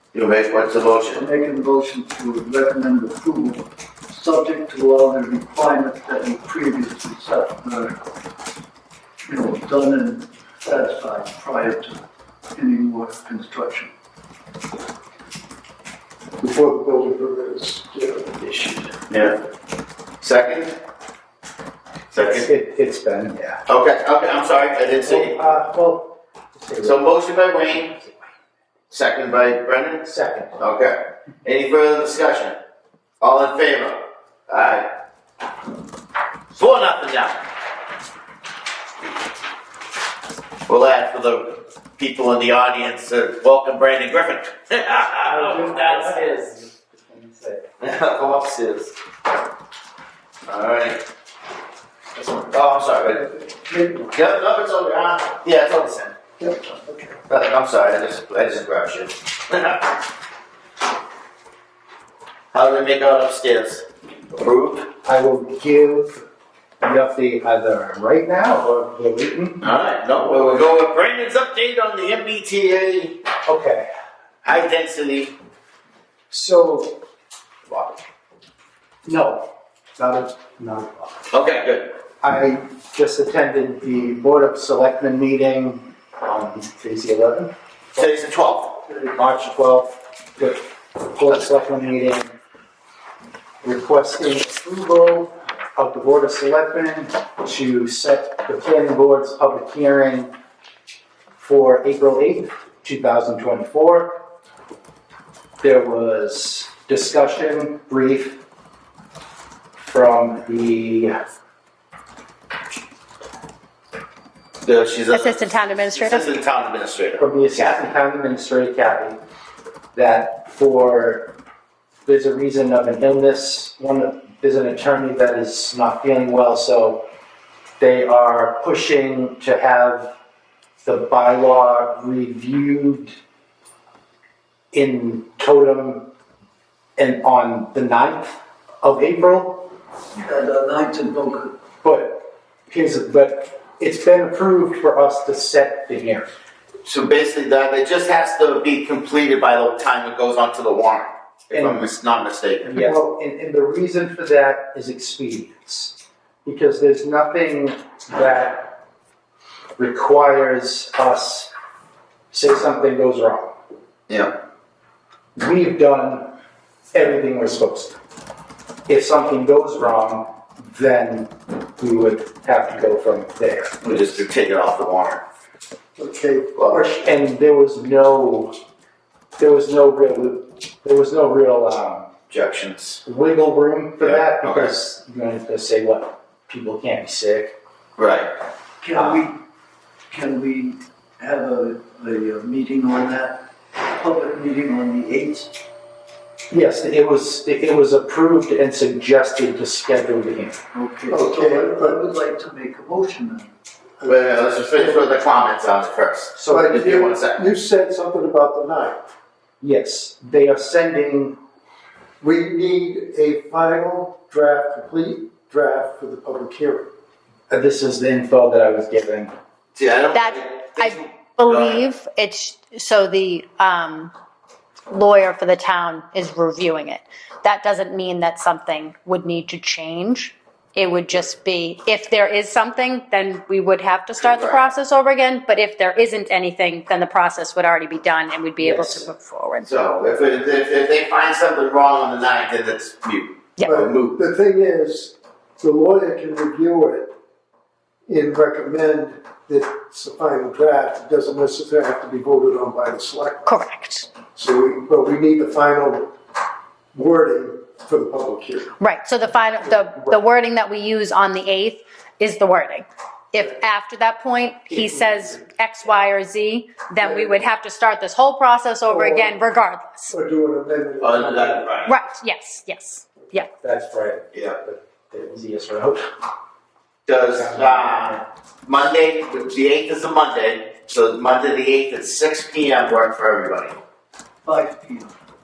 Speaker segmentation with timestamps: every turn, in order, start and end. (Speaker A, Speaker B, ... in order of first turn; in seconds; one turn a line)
Speaker A: 0.1-1.3
Speaker B: 1.1-8.0
Speaker B: 9.2-12.0
Speaker B: 12.5-13.9
Speaker C: 16.4-18.6
Speaker A: 19.0-19.4
Speaker A: 20.2-20.7
Speaker A: 22.1-22.5
Speaker D: 22.1-23.6
Speaker A: 23.7-25.4
Speaker D: 25.0-27.0
Speaker A: 26.8-27.9
Speaker D: 27.6-28.3
Speaker A: 28.9-32.5
Speaker D: 30.1-30.6
Speaker A: 33.2-34.9
Speaker A: 36.5-37.4
Speaker A: 40.7-46.5
Speaker D: 45.2-47.7
Speaker A: 47.8-48.9
Speaker A: 50.4-51.0
Speaker A: 52.1-53.2
Speaker C: 53.4-54.1
Speaker A: 54.1-56.1
Speaker C: 56.4-57.1
Speaker A: 57.3-60.0
Speaker A: 62.5-64.9
Speaker D: 65.0-66.2
Speaker D: 66.8-69.7
Speaker A: 69.6-73.2
Speaker D: 73.4-73.9
Speaker A: 74.4-75.3
Speaker D: 76.3-77.0
Speaker D: 79.0-79.5
Speaker D: 80.0-81.2
Speaker A: 81.3-81.9
Speaker D: 82.2-88.0
Speaker A: 88.0-88.8
Speaker D: 89.1-92.3
Speaker D: 93.6-100.3
Speaker D: 101.4-104.2
Speaker D: 105.6-108.4
Speaker D: 109.8-111.2
Speaker A: 114.6-117.8
Speaker E: 115.1-116.3
Speaker D: 117.2-119.2
Speaker D: 119.9-121.3
Speaker D: 122.0-127.0
Speaker D: 127.8-130.1
Speaker D: 130.8-133.1
Speaker D: 134.7-136.1
Speaker D: 137.0-139.7
Speaker B: 140.1-141.6
Speaker D: 141.8-146.3
Speaker A: 146.8-152.8
Speaker D: 151.5-151.8
Speaker D: 152.7-158.8
Speaker D: 159.8-161.5
Speaker D: 162.3-163.5
Speaker A: 164.1-164.3
Speaker D: 165.4-166.3
Speaker D: 166.9-168.0
Speaker D: 168.9-174.2
Speaker A: 173.8-175.2
Speaker C: 176.0-176.9
Speaker D: 176.7-178.5
Speaker D: 179.4-182.1
Speaker A: 182.3-183.0
Speaker D: 183.0-187.5
Speaker A: 184.0-184.7
Speaker A: 188.0-188.3
Speaker B: 188.8-189.4
Speaker D: 188.9-189.2
Speaker B: 190.1-195.5
Speaker D: 196.5-200.6
Speaker B: 200.7-203.5
Speaker C: 201.1-202.0
Speaker C: 204.0-205.1
Speaker A: 204.1-207.4
Speaker D: 206.4-206.8
Speaker C: 206.5-209.0
Speaker D: 209.6-211.4
Speaker C: 212.2-216.9
Speaker D: 217.5-219.3
Speaker A: 219.8-221.8
Speaker E: 220.1-224.1
Speaker E: 224.9-239.7
Speaker A: 234.2-234.6
Speaker D: 238.6-239.1
Speaker A: 239.6-244.2
Speaker C: 243.6-247.1
Speaker C: 248.1-253.5
Speaker E: 253.4-254.1
Speaker C: 254.3-256.1
Speaker C: 256.9-258.7
Speaker E: 258.8-270.1
Speaker C: 267.0-267.4
Speaker C: 268.9-269.4
Speaker C: 270.1-271.6
Speaker A: 271.0-271.9
Speaker E: 271.9-273.5
Speaker D: 273.6-276.1
Speaker A: 277.1-283.8
Speaker D: 277.1-278.2
Speaker B: 284.4-285.1